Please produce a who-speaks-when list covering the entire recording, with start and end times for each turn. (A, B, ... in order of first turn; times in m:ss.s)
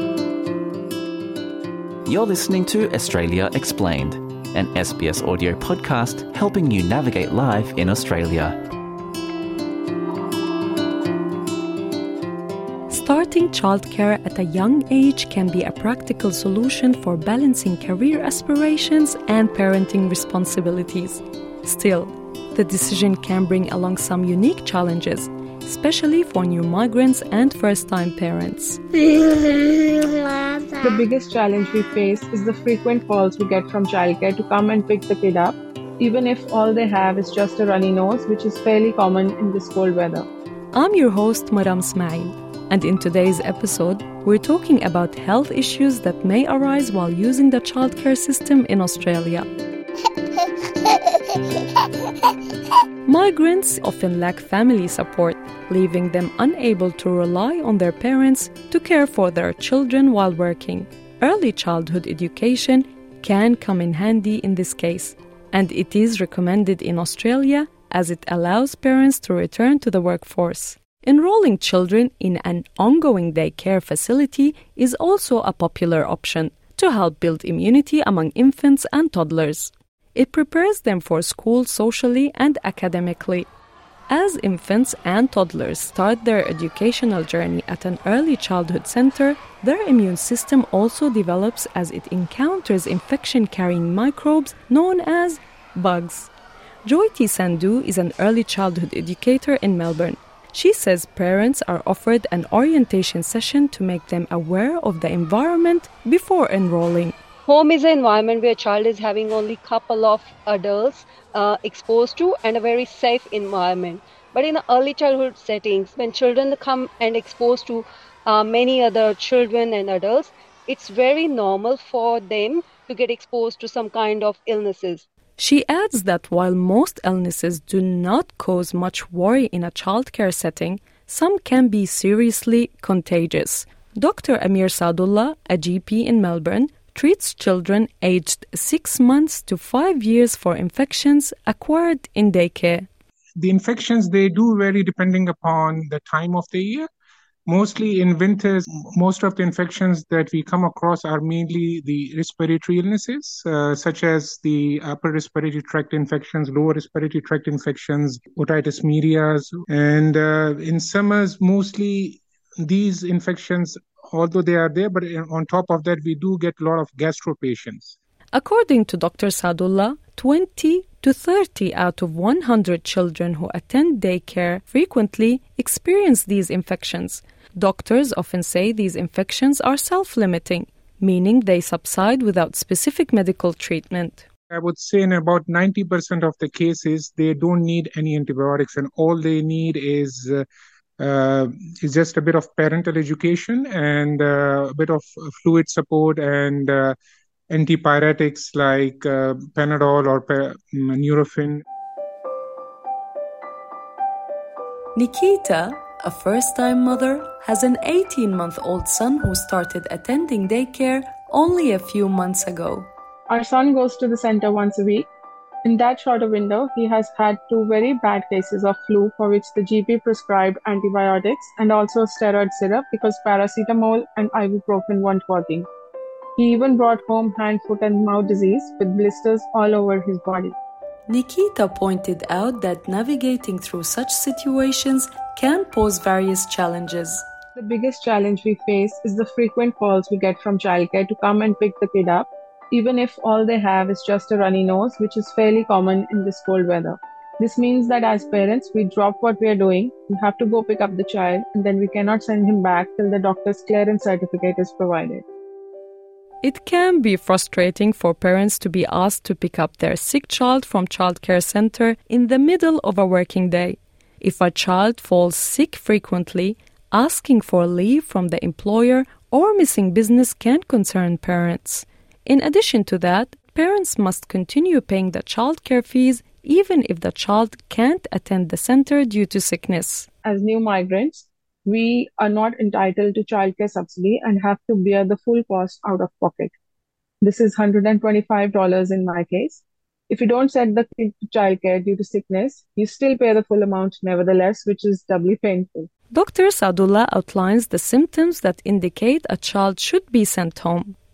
0:02.0-0:08.6 A
0:12.9-0:28.8 B
0:30.8-0:40.3 C
0:40.7-0:49.5 B
0:53.0-1:23.5 B
1:24.1-1:36.3 B
1:36.8-1:47.2 B
1:47.5-2:05.0 D
2:05.4-2:22.9 B
2:23.4-2:26.9 E
2:27.5-2:47.9 E
2:48.3-3:04.2 B
3:04.5-3:10.5 E
3:11.0-3:17.0 E
3:17.5-3:21.6 E
3:24.9-3:32.9 B
3:33.3-3:35.1 C
3:35.6-3:45.7 C
3:46.4-3:50.5 C
3:51.1-3:57.2 B
3:57.6-4:15.2 C
4:16.4-4:40.1 B
4:40.2-4:46.5 C
4:47.2-4:55.9 C
4:56.1-5:01.0 B